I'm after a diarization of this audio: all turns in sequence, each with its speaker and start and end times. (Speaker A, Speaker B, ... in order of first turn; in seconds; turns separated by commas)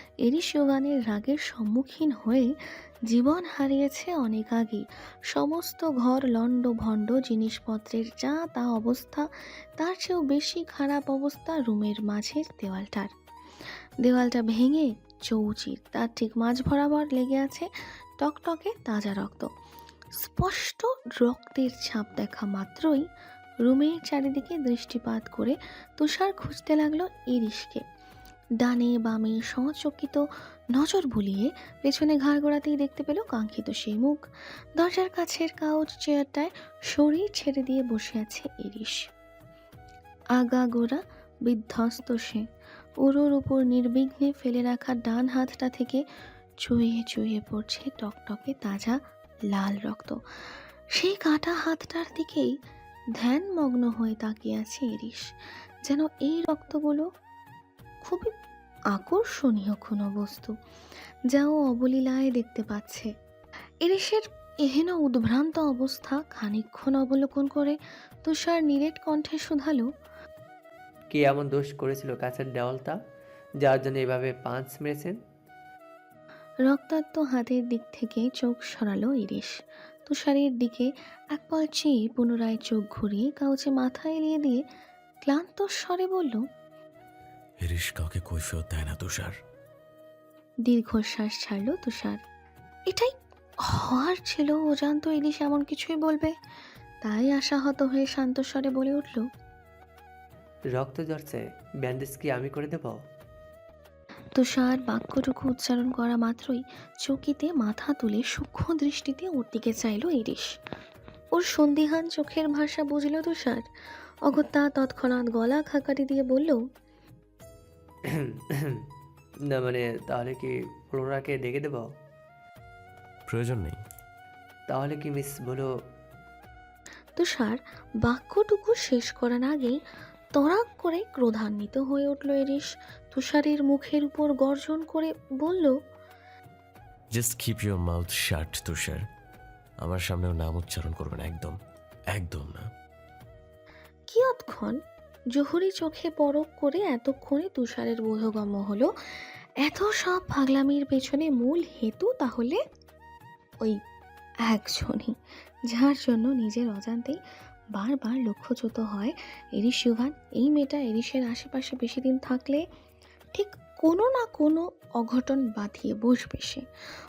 Speaker A: 0.2-2.5, Speaker A: 3.1-13.1, Speaker A: 14.0-17.7, Speaker A: 18.2-19.5, Speaker A: 20.1-23.1, Speaker A: 23.6-27.8, Speaker A: 28.6-34.2, Speaker A: 34.8-39.0, Speaker A: 40.4-42.5, Speaker A: 43.0-46.0, Speaker A: 46.6-49.0, Speaker A: 49.5-50.2, Speaker A: 51.0-52.5, Speaker A: 53.2-55.3, Speaker A: 55.9-57.1, Speaker A: 58.0-58.3, Speaker A: 58.9-60.5, Speaker A: 61.3-63.1, Speaker A: 63.8-69.9, Speaker B: 71.1-73.0, Speaker B: 73.6-75.2, Speaker A: 76.7-79.5, Speaker A: 80.1-84.6, Speaker A: 85.2-86.5, Speaker C: 87.6-89.3, Speaker A: 90.7-92.2, Speaker A: 92.9-96.3, Speaker A: 97.0-99.2, Speaker B: 100.7-103.0, Speaker A: 104.4-110.5, Speaker A: 111.3-113.6, Speaker A: 114.3-116.6, Speaker B: 118.1-118.9, Speaker B: 119.5-121.9, Speaker C: 123.3-123.8, Speaker B: 124.7-125.7, Speaker A: 127.2-129.8, Speaker A: 130.3-135.8, Speaker C: 137.1-139.0, Speaker C: 139.8-141.6, Speaker C: 142.1-142.7, Speaker A: 144.1-144.8, Speaker A: 145.3-148.9, Speaker A: 149.6-152.6, Speaker A: 154.4-155.2, Speaker A: 155.7-157.2, Speaker A: 157.7-162.6, Speaker A: 163.3-166.6